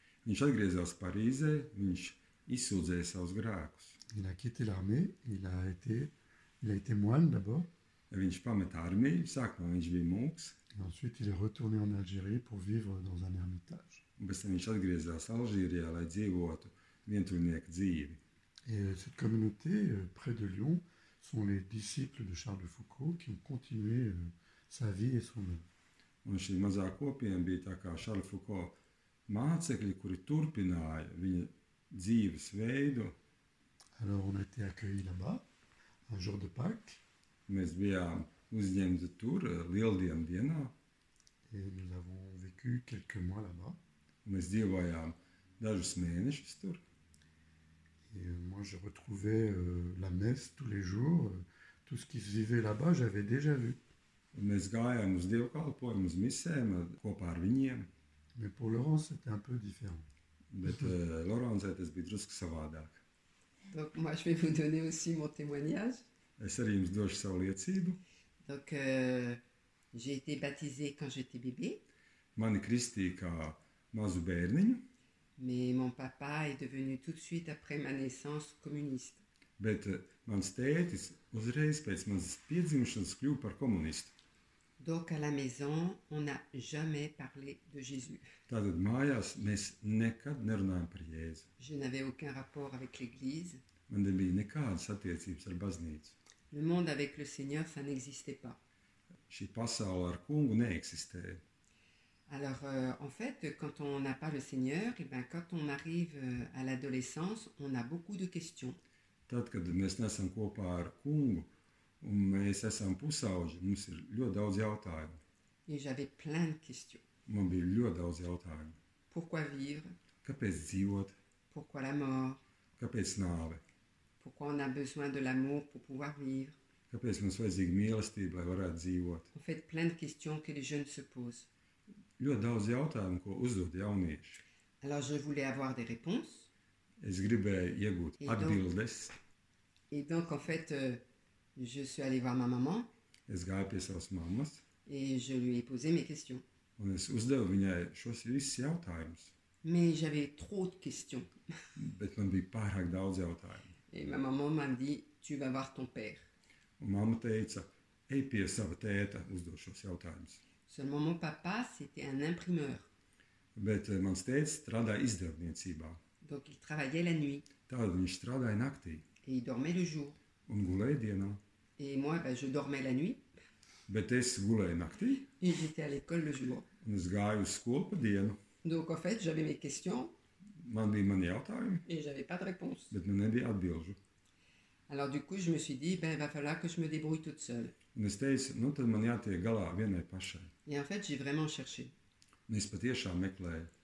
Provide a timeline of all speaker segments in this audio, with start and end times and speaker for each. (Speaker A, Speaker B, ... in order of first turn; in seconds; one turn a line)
Speaker A: 0.2-4.0
Speaker B: 4.1-7.7
Speaker A: 8.1-10.6
Speaker B: 10.7-14.0
Speaker A: 14.2-18.2
Speaker B: 18.7-25.6
Speaker A: 26.2-33.2
Speaker B: 34.0-35.4
Speaker B: 36.1-37.0
Speaker A: 37.5-40.7
Speaker B: 41.5-43.8
Speaker A: 44.2-46.8
Speaker B: 48.1-53.8
Speaker A: 54.3-57.9
Speaker B: 58.4-60.1
Speaker A: 60.5-63.0
Speaker C: 63.7-66.0
Speaker A: 66.4-68.0
Speaker C: 68.4-69.4
Speaker C: 69.9-71.8
Speaker A: 72.4-74.9
Speaker C: 75.4-79.2
Speaker A: 79.6-84.1
Speaker C: 84.8-88.2
Speaker A: 88.5-91.5
Speaker C: 91.6-93.6
Speaker A: 93.9-96.2
Speaker C: 96.5-98.6
Speaker A: 99.3-101.4
Speaker C: 102.3-108.8
Speaker A: 109.3-111.5
Speaker A: 112.0-115.2
Speaker C: 115.7-117.0
Speaker A: 117.3-118.8
Speaker C: 119.1-119.9
Speaker A: 120.2-121.2
Speaker C: 121.5-122.4
Speaker A: 122.8-123.6
Speaker C: 124.2-126.6
Speaker A: 126.9-129.3
Speaker C: 129.3-131.5
Speaker A: 132.2-134.4
Speaker C: 134.8-136.5
Speaker A: 137.0-139.2
Speaker C: 138.2-138.6
Speaker C: 139.9-141.0
Speaker C: 141.6-142.9
Speaker A: 143.3-144.6
Speaker C: 144.9-146.4
Speaker A: 146.8-149.3
Speaker C: 149.6-151.3
Speaker A: 151.8-153.7
Speaker C: 153.9-156.3
Speaker A: 156.8-160.4
Speaker C: 160.7-162.9
Speaker A: 163.6-166.0
Speaker C: 166.2-167.5
Speaker A: 167.7-169.0
Speaker C: 169.2-170.2
Speaker A: 170.5-171.4
Speaker C: 171.8-173.2
Speaker A: 173.9-175.3
Speaker C: 175.3-176.7
Speaker A: 176.8-178.4
Speaker C: 178.6-180.1
Speaker A: 180.6-181.8
Speaker C: 181.9-182.9
Speaker A: 182.9-184.0
Speaker C: 184.9-187.7
Speaker A: 187.9-190.5
Speaker C: 190.7-191.9
Speaker A: 192.5-193.7